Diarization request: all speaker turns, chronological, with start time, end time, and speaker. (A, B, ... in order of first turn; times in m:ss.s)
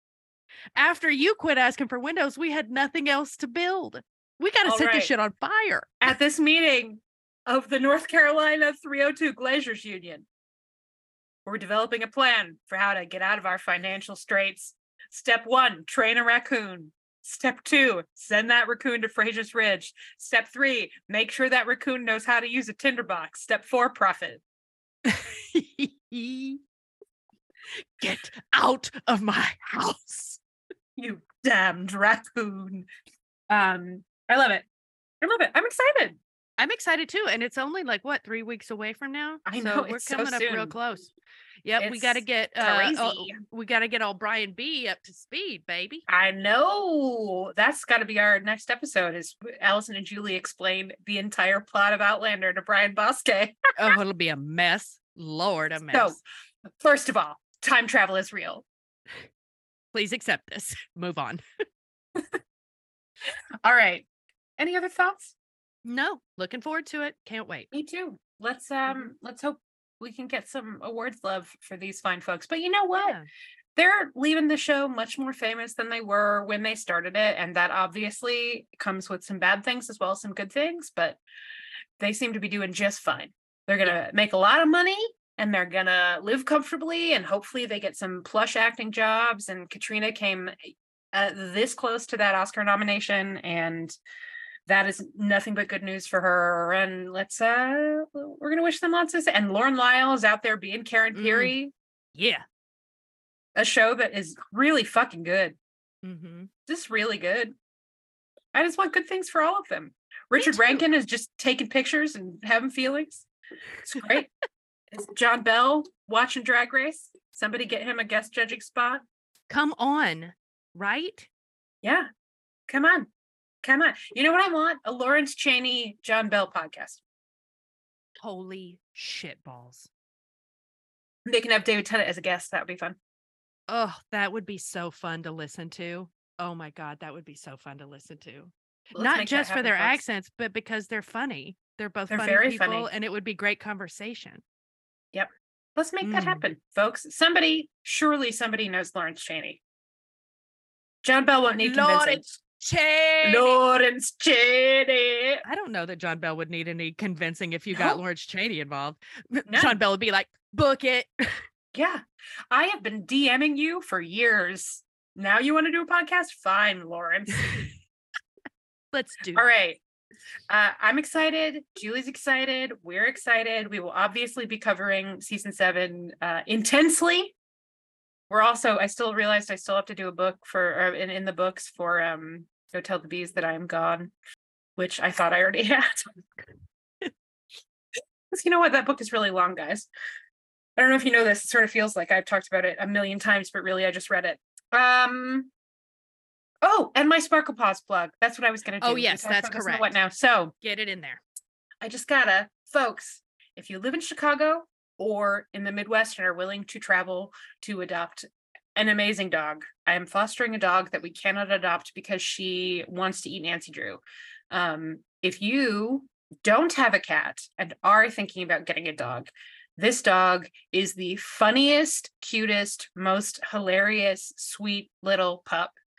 0:00.8-0:06.1 A
0:04.6-0:05.1 B
0:06.0-0:10.2 B
0:11.5-0:24.4 B
0:25.1-0:26.6 A
0:28.0-0:30.4 A
0:31.0-0:32.9 B
0:33.5-0:34.6 B
0:35.2-0:36.2 B
0:36.6-0:41.1 A
0:39.5-0:40.8 B
0:41.6-0:46.0 A
0:41.8-0:43.4 B
0:46.1-0:53.6 B
0:53.8-0:56.2 A
0:55.9-0:56.2 B
0:56.8-0:58.6 B
0:59.9-1:01.4 A
1:03.6-1:04.0 B
1:04.6-1:05.3 B
1:05.8-1:07.7 A
1:07.7-1:13.2 B
1:13.0-1:13.3 A
1:13.8-1:21.2 B
1:22.0-1:30.6 B
1:31.1-1:34.0 B
1:34.7-1:41.7 B
1:41.1-1:41.5 A
1:42.1-1:42.4 A
1:43.6-1:45.6 B
1:46.0-1:46.5 A
1:46.7-1:47.5 B
1:48.5-1:53.3 B
1:50.4-1:50.8 A
1:53.9-1:54.3 B
1:53.9-1:54.3 A
1:54.9-1:59.0 B
1:59.5-2:01.3 A
2:02.7-2:03.1 B
2:03.6-2:07.0 B
2:08.2-2:09.9 A
2:11.3-2:13.0 B
2:13.7-2:24.4 A
2:19.0-2:20.0 B
2:22.1-2:22.9 B
2:25.1-2:29.6 B
2:26.0-2:26.4 A
2:31.0-2:32.3 B
2:31.6-2:33.6 A
2:33.2-2:35.4 B
2:35.4-2:41.4 A
2:37.7-2:38.0 B
2:39.5-2:39.8 B
2:41.7-2:47.4 B
2:47.4-2:47.7 A
2:48.9-2:49.5 A
2:49.4-2:49.8 B
2:50.5-2:57.3 B
2:58.3-3:04.1 B
3:04.8-3:06.0 B
3:08.3-3:09.9 B
3:10.8-3:15.5 B
3:16.6-3:20.5 B
3:18.8-3:20.0 A
3:20.6-3:21.2 A
3:21.8-3:45.8 B